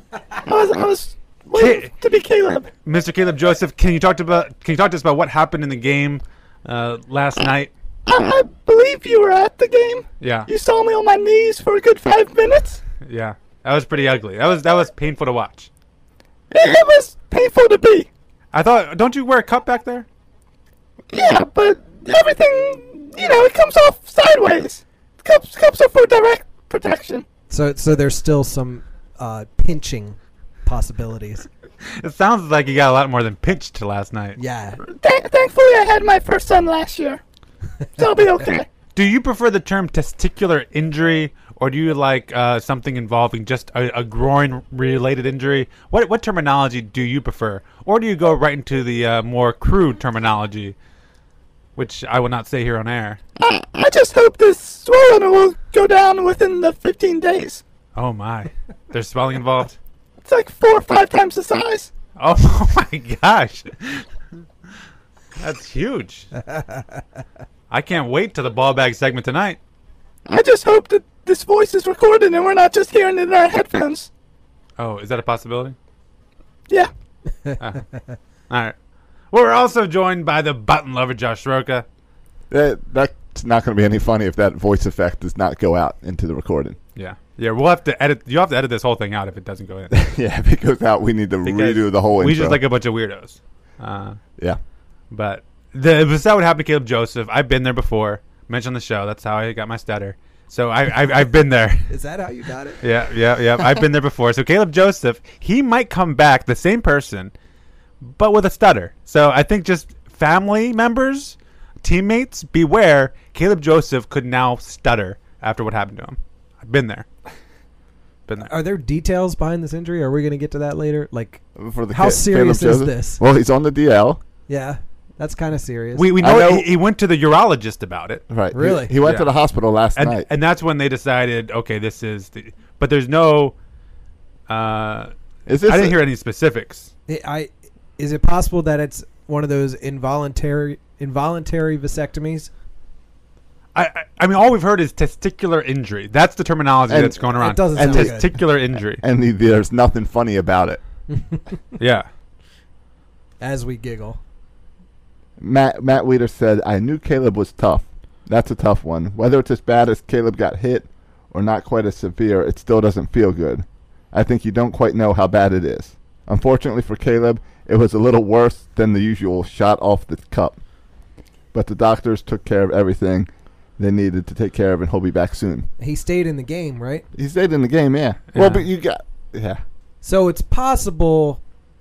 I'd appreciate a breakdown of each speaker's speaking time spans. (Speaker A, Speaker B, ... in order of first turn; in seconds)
Speaker A: 0.4-2.7, 8.1-12.8, 16.5-18.1, 21.1-27.2, 34.9-37.2, 38.0-38.7, 53.4-57.6, 60.2-61.9, 70.3-74.1
Speaker B: 1.6-1.9, 2.8-7.7, 10.2-10.5, 13.0-15.7, 18.5-20.1, 32.0-34.4, 38.9-50.7, 51.8-53.2, 58.0-59.8, 62.2-64.0, 65.4-66.3, 67.7-69.6, 74.8-75.8, 78.5-78.7, 79.3-81.8, 87.0-90.0, 91.4-94.2, 95.1-101.9, 102.8-107.3, 108.0-117.1, 125.9-128.2, 129.0-129.3, 129.9-133.5, 134.5-135.1, 135.6-136.9, 143.7-149.0, 151.8-152.1, 178.3-178.7
Speaker C: 27.5-31.5, 34.4-34.8, 101.9-102.8, 118.4-121.4, 121.9-123.2, 124.5-126.1, 128.5-128.9, 137.1-142.5, 147.4-148.3, 151.1-151.4, 153.4-154.2, 175.8-177.1, 180.0-181.4
Speaker D: 82.5-86.8, 89.9-92.6, 121.5-124.2, 126.2-126.7, 128.3-130.2, 135.4-136.0, 146.9-150.8, 155.4-170.6, 171.5-175.7, 177.1-179.6